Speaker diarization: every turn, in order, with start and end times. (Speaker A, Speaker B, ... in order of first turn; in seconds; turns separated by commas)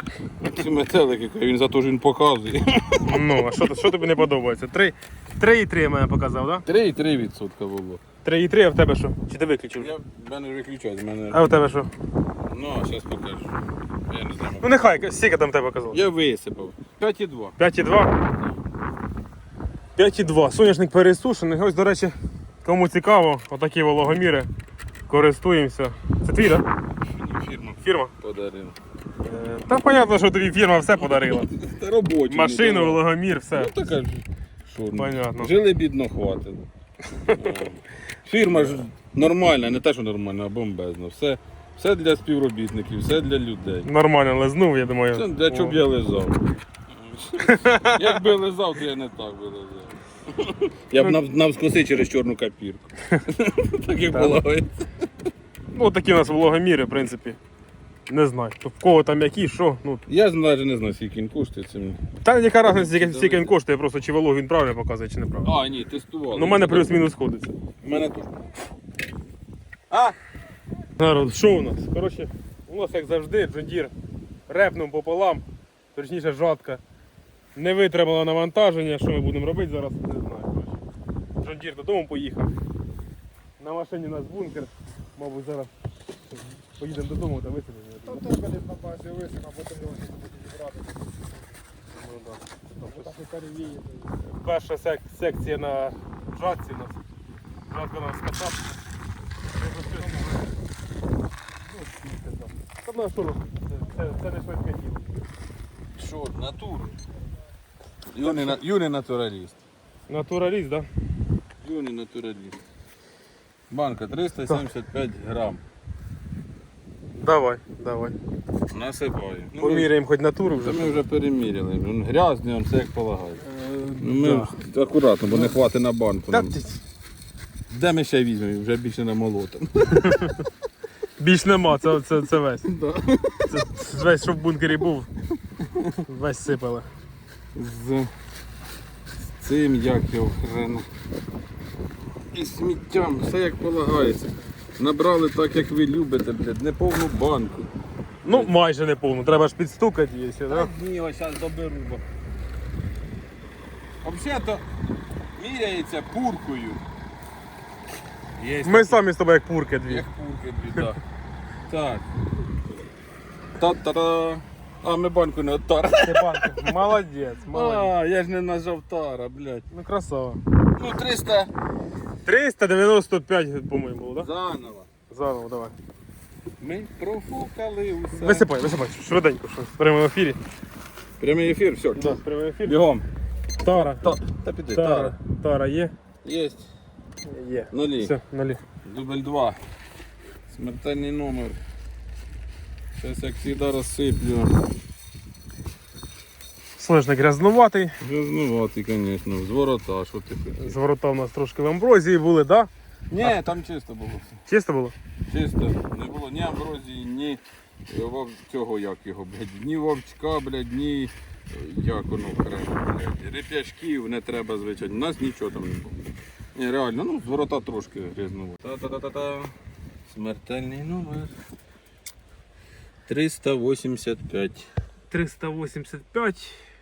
Speaker A: 0.4-3.5, Speaker B: 3.1-6.7, Speaker A: 6.7-8.0, Speaker B: 8.2-9.9, Speaker A: 9.8-11.5, Speaker B: 11.3-11.9, Speaker A: 12.5-14.8, Speaker B: 14.6-16.0, Speaker A: 15.9-17.6, Speaker B: 17.6-18.2, Speaker A: 18.2-18.6, Speaker B: 20.0-24.5, Speaker B: 25.1-26.7, Speaker A: 27.0-28.8, Speaker B: 27.8-28.1, Speaker B: 29.2-31.5, Speaker A: 31.0-36.6, Speaker B: 32.3-33.7, Speaker B: 35.0-35.5, Speaker A: 37.3-43.9, Speaker B: 38.5-38.8, Speaker B: 43.9-45.8, Speaker A: 45.1-54.9, Speaker B: 47.4-48.2, Speaker B: 54.1-54.4, Speaker B: 55.7-57.4, Speaker B: 58.1-60.0, Speaker A: 60.1-62.0, Speaker B: 62.2-65.5, Speaker A: 62.8-63.6, Speaker A: 65.4-67.0, Speaker B: 66.3-67.6, Speaker A: 67.8-68.3, Speaker A: 69.9-70.2, Speaker B: 71.0-73.9, Speaker B: 74.5-75.4, Speaker B: 76.0-76.8, Speaker B: 77.5-80.8, Speaker B: 81.4-82.5, Speaker B: 83.6-85.7, Speaker B: 86.7-88.2, Speaker C: 88.0-91.3, Speaker B: 91.9-93.1, Speaker C: 92.9-94.1, Speaker B: 94.2-97.0, Speaker B: 97.7-98.7, Speaker B: 99.5-100.5, Speaker B: 101.8-105.2, Speaker A: 106.0-107.0, Speaker A: 108.1-109.6, Speaker B: 108.2-108.6, Speaker B: 110.1-110.9, Speaker A: 111.6-112.6, Speaker A: 113.7-115.6, Speaker B: 117.2-118.2, Speaker A: 118.7-119.9, Speaker B: 119.6-121.0, Speaker A: 120.6-123.5, Speaker B: 123.5-124.5, Speaker A: 124.0-126.6, Speaker B: 126.3-126.8, Speaker A: 127.7-130.2, Speaker B: 130.0-130.3, Speaker B: 131.2-132.7, Speaker A: 132.7-133.9, Speaker B: 133.5-135.1, Speaker A: 135.6-136.0, Speaker B: 136.1-136.9, Speaker A: 137.6-138.1, Speaker A: 139.3-140.9, Speaker A: 142.3-147.7, Speaker B: 148.2-150.7, Speaker A: 148.2-148.6, Speaker A: 150.5-152.0, Speaker A: 154.0-154.6, Speaker A: 155.4-156.8, Speaker A: 158.4-159.0, Speaker B: 158.6-160.1, Speaker A: 159.8-161.0, Speaker A: 161.7-162.1, Speaker A: 163.6-166.8, Speaker B: 166.0-167.9, Speaker A: 167.5-169.7, Speaker B: 169.7-170.4, Speaker A: 170.8-171.5, Speaker B: 172.2-174.3, Speaker A: 174.2-174.9, Speaker B: 175.1-175.7, Speaker A: 176.6-178.5, Speaker B: 178.1-180.4, Speaker A: 181.2-183.1, Speaker B: 182.0-182.8, Speaker B: 183.6-184.1, Speaker A: 183.7-185.2, Speaker B: 184.7-185.9, Speaker A: 186.2-186.7, Speaker B: 187.3-188.6, Speaker A: 187.7-188.2, Speaker A: 188.8-189.6, Speaker A: 190.5-191.6, Speaker A: 193.0-194.6, Speaker B: 196.8-197.9, Speaker A: 198.0-200.8, Speaker B: 200.6-202.7, Speaker A: 203.1-204.4, Speaker B: 204.5-204.9, Speaker A: 205.3-216.0, Speaker A: 216.6-219.6, Speaker A: 220.1-221.3, Speaker A: 223.1-224.7, Speaker B: 225.1-226.6